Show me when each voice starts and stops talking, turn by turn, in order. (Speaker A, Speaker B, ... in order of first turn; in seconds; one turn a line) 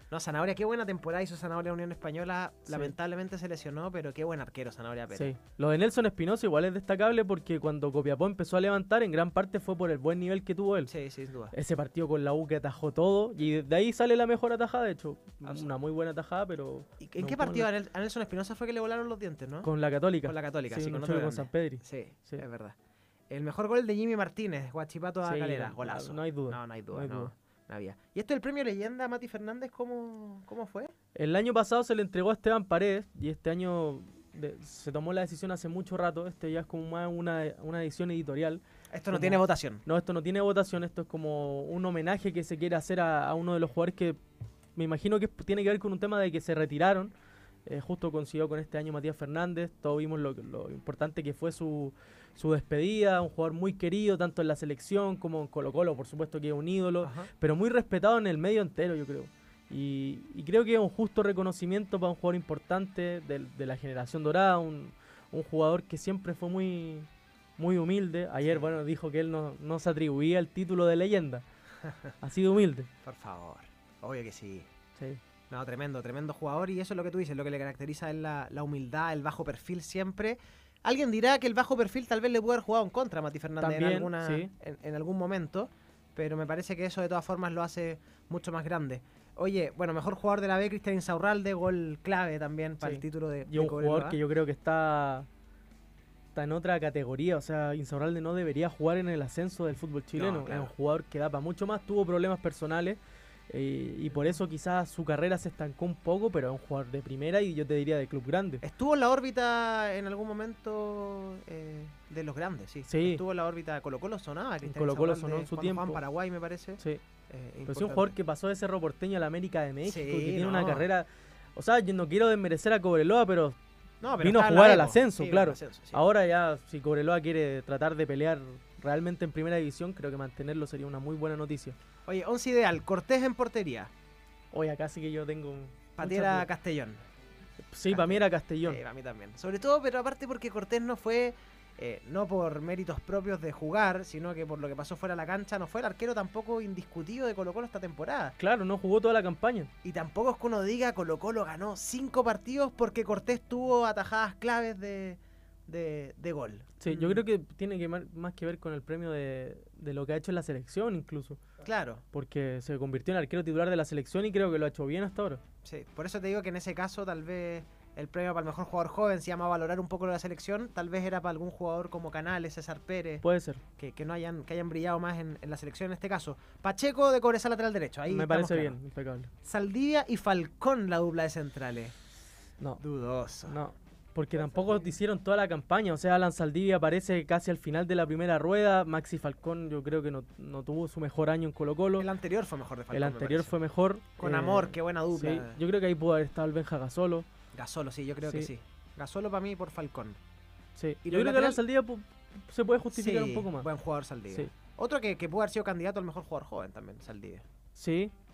Speaker A: 0.1-5.3
Speaker B: 5.1-10.9
Speaker A: 10.9-11.5
Speaker B: 11.5-17.7
Speaker A: 15.4-15.7
Speaker A: 17.0-19.7
Speaker B: 19.6-22.4
Speaker A: 20.2-22.8
Speaker A: 23.3-30.9
Speaker B: 25.2-27.3
Speaker B: 31.1-44.2
Speaker A: 38.9-39.8
Speaker B: 44.8-47.1
Speaker B: 47.6-71.4
Speaker A: 57.0-57.3
Speaker A: 68.4-68.7
Speaker A: 71.8-72.1
Speaker B: 72.2-72.9
Speaker A: 73.0-74.7
Speaker A: 75.5-94.2
Speaker B: 83.6-84.5
Speaker B: 92.8-95.3
Speaker B: 96.3-108.6
Speaker A: 100.1-100.7
Speaker A: 108.6-118.1
Speaker B: 112.9-113.2
Speaker B: 114.6-116.0
Speaker B: 117.7-123.6
Speaker A: 119.8-120.9
Speaker A: 124.0-126.0
Speaker B: 124.2-131.8
Speaker A: 132.1-133.9
Speaker B: 134.5-136.4
Speaker A: 136.0-137.0
Speaker B: 137.6-138.8
Speaker A: 137.9-148.4
Speaker B: 148.4-149.7
Speaker A: 149.8-157.2
Speaker B: 156.8-161.4
Speaker A: 161.6-162.0
Speaker B: 162.1-165.4
Speaker A: 165.6-173.2
Speaker B: 173.2-173.6
Speaker A: 173.8-178.8
Speaker B: 178.1-179.3
Speaker A: 179.4-181.9
Speaker A: 182.8-183.6
Speaker B: 183.5-192.1
Speaker A: 192.0-193.6
Speaker B: 192.9-197.2
Speaker A: 194.2-195.6
Speaker A: 197.5-200.2
Speaker B: 198.2-198.5
Speaker B: 200.8-203.7
Speaker A: 201.0-201.6
Speaker A: 202.9-207.4
Speaker B: 207.8-208.1